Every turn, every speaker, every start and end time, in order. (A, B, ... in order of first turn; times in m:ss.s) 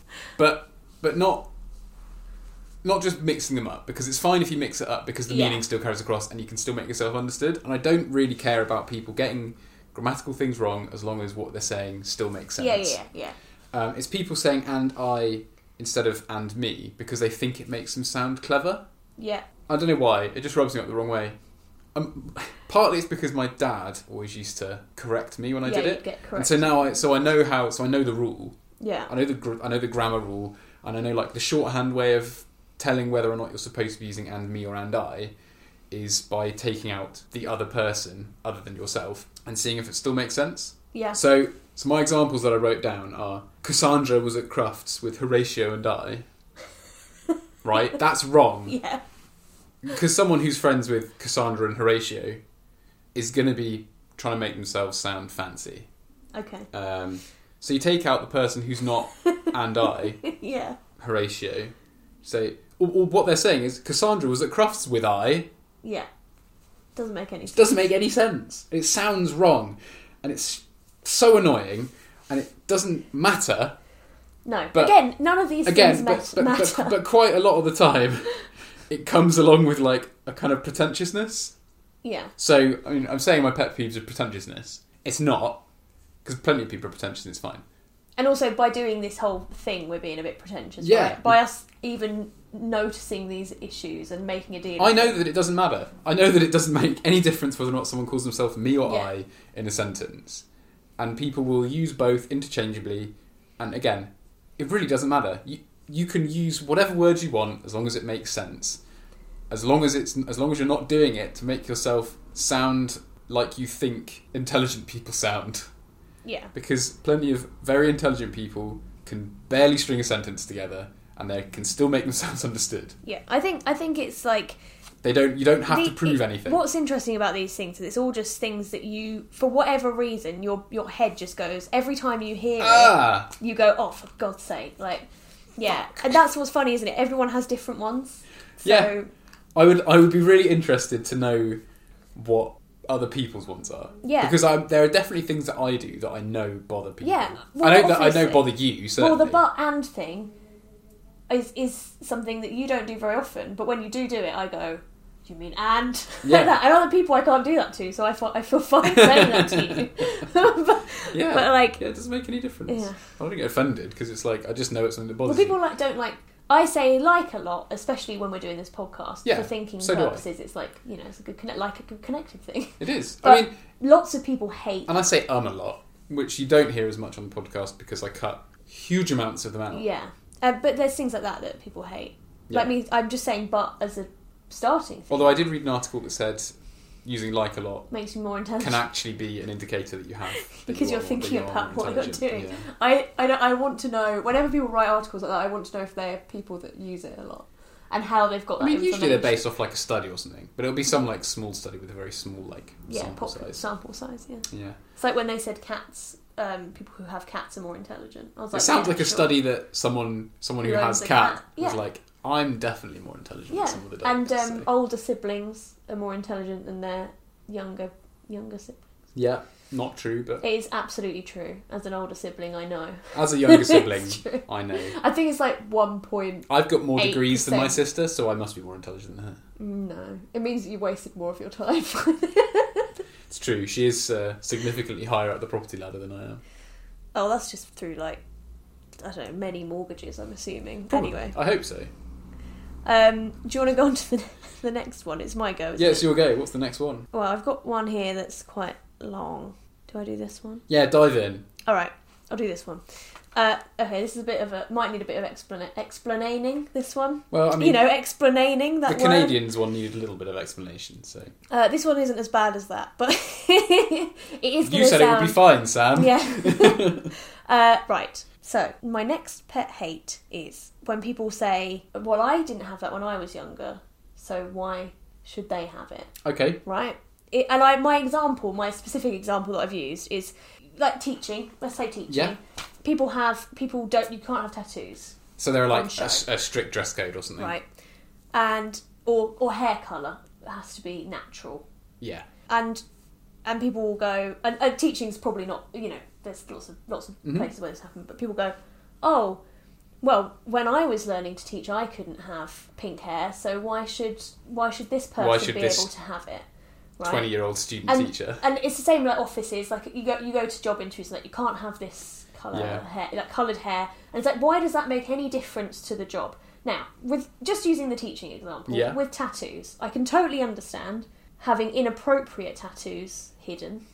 0:00.4-0:01.5 A
0:02.8-0:13.0 A
0:05.3-0:05.6 B
0:12.6-0:13.4 B
0:13.7-0:18.8 A
0:19.2-0:19.4 B
0:19.7-0:21.4 A
0:21.9-0:28.6 A
0:25.6-0:26.8 B
0:28.8-0:29.1 B
0:29.1-0:35.3 A
0:35.9-0:46.2 A
0:40.9-0:41.2 B
0:47.6-0:48.8 A
0:48.7-0:49.0 B
0:49.8-0:52.4 A
0:53.1-0:55.9 A
0:56.3-0:56.7 B
0:56.7-1:00.2 A
0:59.2-0:59.5 B
1:00.2-1:00.8 B
1:01.0-1:05.5 A
1:07.0-1:07.8 B
1:07.5-1:13.8 A
1:14.4-1:16.9 B
1:15.6-1:21.5 A
1:22.0-1:22.3 B
1:22.4-1:25.6 A
1:26.2-1:27.6 A
1:28.2-1:35.2 B
1:30.8-1:31.4 A
1:34.8-1:40.4 A
1:41.0-1:48.8 A
1:49.5-1:55.7 A
1:56.2-1:56.5 B
1:56.5-2:03.0 A
2:03.0-2:04.6 B
2:05.0-2:06.6 A
2:05.7-2:19.1 B
2:12.6-2:13.3 A
2:18.6-2:18.9 A
2:19.5-2:21.6 A
2:22.1-2:29.4 A
2:24.0-2:24.4 B
2:27.0-2:30.3 B
2:31.3-2:41.8 B
2:36.2-2:36.6 A
2:38.8-2:40.0 A
2:41.1-2:45.6 A
2:42.7-2:43.0 B
2:45.2-2:55.0 B
2:49.2-2:50.2 A
2:52.8-2:53.5 A
2:54.9-2:59.8 A
2:59.7-3:05.4 B
3:05.1-3:06.5 A
3:07.0-3:07.9 A
3:07.9-3:08.8 B
3:08.6-3:12.7 A
3:10.4-3:19.4 B
3:18.6-3:23.6 A
3:22.9-3:29.4 B
3:24.5-3:24.8 A
3:28.5-3:34.7 A
3:30.6-3:31.8 B
3:33.5-3:38.8 B
3:39.1-3:40.4 A
3:40.4-3:47.8 B
3:43.1-3:44.9 A
3:46.5-3:49.4 A
3:49.6-3:52.9 B
3:53.3-3:56.4 A
3:57.1-3:58.2 B
3:59.0-4:01.4 B
4:00.9-4:01.9 A
4:02.8-4:06.1 B
4:05.8-4:07.1 A
4:07.1-4:10.6 B
4:10.7-4:11.5 A
4:11.6-4:12.8 B
4:13.3-4:19.4 B
4:17.3-4:17.8 A
4:18.9-4:21.3 A
4:21.5-4:25.4 B
4:24.6-4:27.1 A
4:25.9-4:36.1 B
4:36.2-4:36.6 A
4:36.6-4:45.2 B
4:42.1-4:42.4 A
4:45.4-4:47.5 A
4:45.7-4:46.2 B
4:47.4-4:47.6 B
4:48.3-4:51.6 B
4:52.0-4:52.2 A
4:52.5-4:52.8 B
4:53.4-4:59.4 B
5:00.0-5:06.4 B
5:05.2-5:05.9 A
5:07.0-5:07.3 B
5:07.0-5:08.4 A
5:07.8-5:23.8 B
5:12.5-5:12.8 A
5:18.7-5:19.0 A